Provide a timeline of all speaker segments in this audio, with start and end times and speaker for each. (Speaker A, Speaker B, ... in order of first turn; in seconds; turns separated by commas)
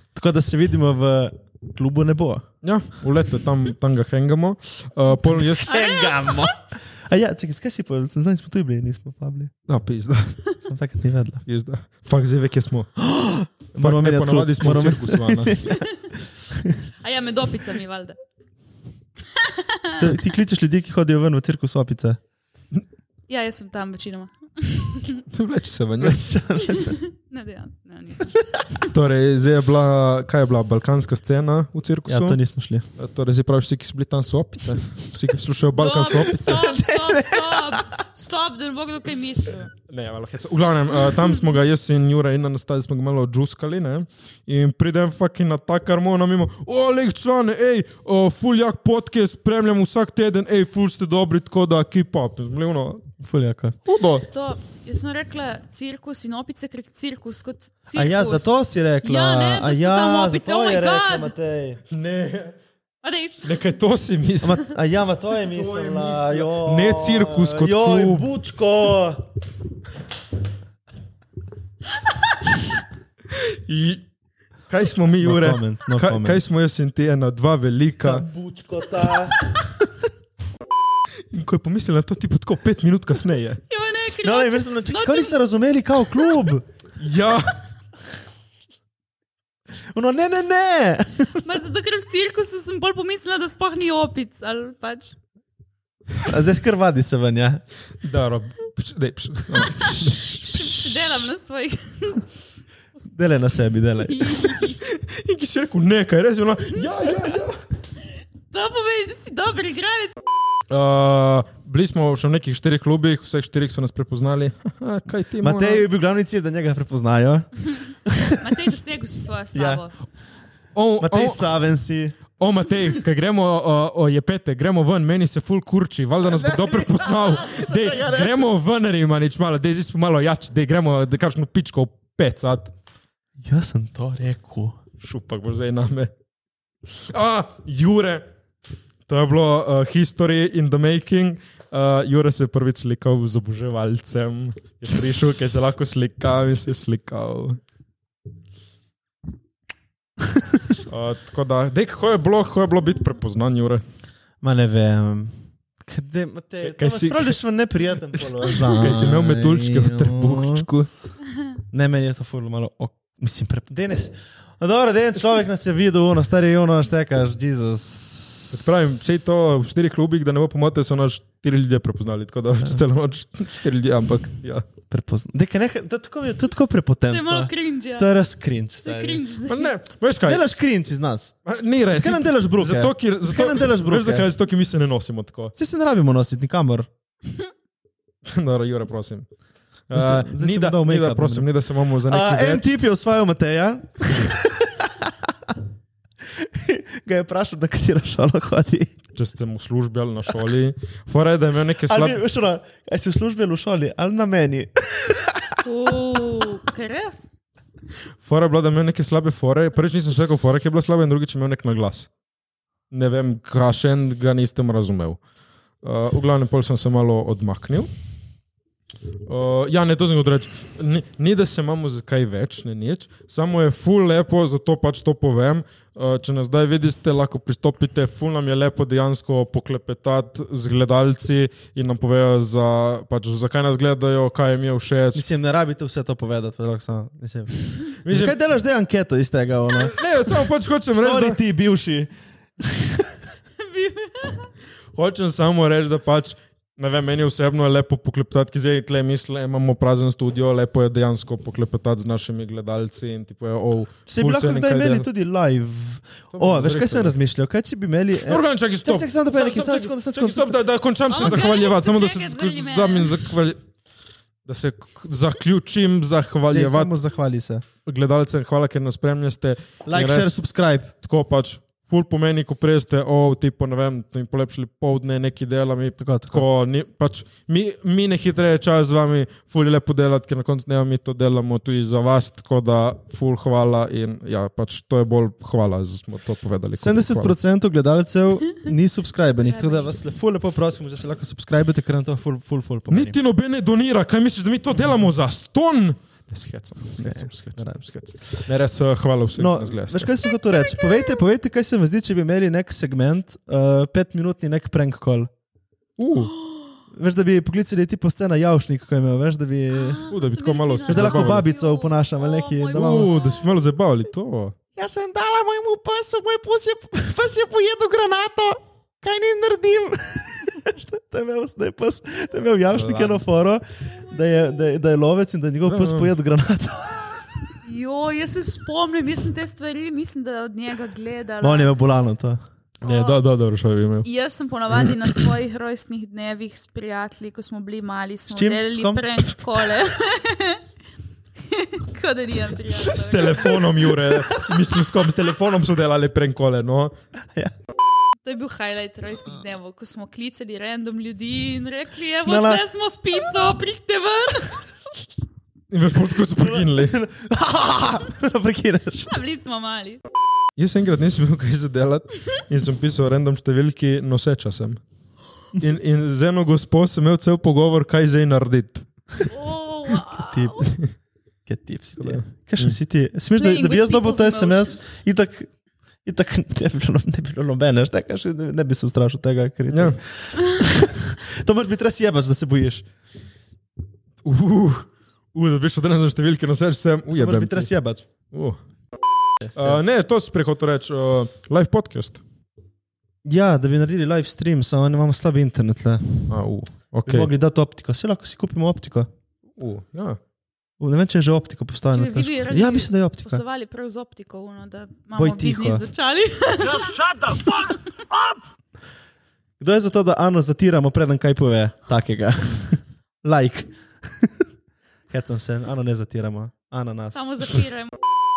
Speaker A: 0.1-2.4, Speaker B: 2.6-5.8, Speaker A: 5.2-9.5, Speaker C: 5.7-6.5, Speaker B: 9.7-10.5, Speaker A: 10.6-11.4, Speaker B: 11.4-13.1, Speaker A: 13.0-16.8, Speaker B: 13.7-15.6, Speaker C: 17.0-18.2, Speaker C: 19.3-20.1, Speaker A: 20.0-22.2, Speaker C: 23.3-25.2, Speaker B: 25.3-26.2, Speaker A: 26.0-27.0, Speaker C: 26.7-28.4, Speaker B: 28.9-32.4, Speaker A: 32.0-32.9, Speaker B: 33.0-36.7, Speaker C: 35.7-39.7, Speaker A: 36.1-37.8, Speaker B: 39.9-53.1, Speaker A: 53.2-53.8, Speaker B: 53.8-54.2, Speaker C: 54.1-61.3, Speaker A: 57.9-61.8, Speaker B: 61.9-62.5, Speaker C: 63.0-63.6, Speaker B: 63.4-64.7, Speaker A: 64.4-69.3, Speaker B: 65.4-68.3, Speaker B: 73.3-74.0, Speaker B: 74.7-78.2, Speaker A: 75.2-76.4, Speaker A: 78.0-79.6, Speaker B: 81.3-83.6, Speaker C: 83.7-85.4, Speaker A: 84.2-86.6, Speaker B: 87.0-87.6, Speaker A: 89.8-91.4, Speaker C: 91.3-95.1, Speaker A: 96.2-97.6, Speaker B: 98.0-100.5, Speaker C: 99.9-102.2, Speaker A: 103.0-104.3, Speaker C: 104.1-104.8, Speaker B: 104.8-107.6, Speaker C: 108.5-110.2, Speaker B: 110.7-115.8, Speaker A: 115.4-118.6, Speaker C: 118.4-119.9, Speaker A: 119.5-119.8, Speaker B: 120.7-121.5, Speaker A: 121.0-122.2, Speaker B: 122.4-132.7, Speaker A: 126.4-128.4, Speaker A: 133.4-134.8, Speaker B: 135.0-136.1, Speaker B: 137.1-138.2, Speaker B: 139.1-147.6, Speaker B: 150.8-153.8, Speaker A: 154.4-160.7, Speaker B: 156.6-157.4, Speaker B: 158.4-160.9, Speaker A: 161.7-168.7, Speaker B: 168.5-174.7, Speaker A: 174.9-179.2, Speaker C: 177.1-178.1, Speaker C: 178.8-179.7, Speaker B: 179.4-180.4, Speaker A: 180.2-181.3, Speaker B: 181.4-185.5, Speaker A: 181.9-184.3, Speaker A: 185.6-186.9, Speaker B: 188.2-189.3, Speaker B: 189.9-192.7, Speaker A: 189.9-191.5, Speaker A: 192.1-195.6, Speaker A: 196.2-198.9, Speaker B: 199.1-202.2, Speaker A: 201.8-205.6, Speaker C: 205.6-207.3, Speaker B: 208.2-212.1, Speaker B: 212.9-215.2, Speaker B: 215.8-217.9, Speaker B: 219.2-235.3, Speaker A: 235.1-243.1, Speaker B: 238.0-238.4, Speaker B: 239.7-241.4, Speaker C: 243.6-244.5, Speaker B: 244.9-255.1, Speaker A: 254.1-260.6, Speaker B: 256.3-257.1, Speaker B: 258.2-263.6, Speaker C: 261.1-263.3, Speaker B: 264.4-267.0, Speaker A: 266.5-267.6, Speaker B: 267.9-270.4, Speaker A: 269.9-270.9, Speaker B: 271.0-287.4, Speaker A: 276.0-276.4, Speaker A: 286.8-293.1, Speaker C: 289.3-289.9, Speaker B: 292.9-300.1, Speaker A: 297.0-298.4, Speaker A: 299.4-305.3, Speaker B: 306.0-306.3, Speaker A: 306.9-310.1, Speaker C: 309.7-313.5, Speaker B: 310.1-311.4, Speaker A: 310.9-313.1, Speaker B: 312.7-314.6, Speaker A: 314.7-327.4, Speaker B: 322.7-323.2, Speaker B: 325.7-326.1, Speaker C: 327.6-331.7, Speaker A: 331.4-332.4, Speaker C: 332.8-333.2, Speaker B: 332.8-334.1, Speaker C: 334.0-340.6, Speaker A: 338.3-339.6, Speaker C: 341.4-343.9, Speaker B: 342.8-346.9, Speaker A: 344.2-344.5, Speaker C: 348.2-354.6, Speaker A: 352.2-352.6, Speaker B: 355.7-357.0, Speaker A: 356.3-359.1, Speaker C: 359.1-360.0, Speaker B: 360.6-364.8, Speaker B: 365.5-369.3, Speaker C: 369.3-370.7, Speaker A: 370.2-370.7, Speaker B: 370.6-370.9, Speaker A: 371.4-375.5, Speaker B: 372.0-372.7, Speaker C: 373.4-374.9, Speaker A: 376.0-382.8, Speaker B: 379.7-380.0, Speaker B: 384.2-387.7, Speaker A: 387.1-388.0, Speaker B: 388.3-388.6, Speaker A: 389.4-389.8, Speaker B: 389.6-392.2, Speaker A: 393.2-396.3, Speaker B: 396.3-397.3, Speaker A: 397.1-399.1, Speaker B: 399.6-400.2, Speaker A: 400.8-403.4, Speaker C: 401.9-407.8, Speaker A: 405.1-405.9, Speaker A: 409.6-414.5, Speaker A: 415.1-417.6, Speaker C: 417.1-417.9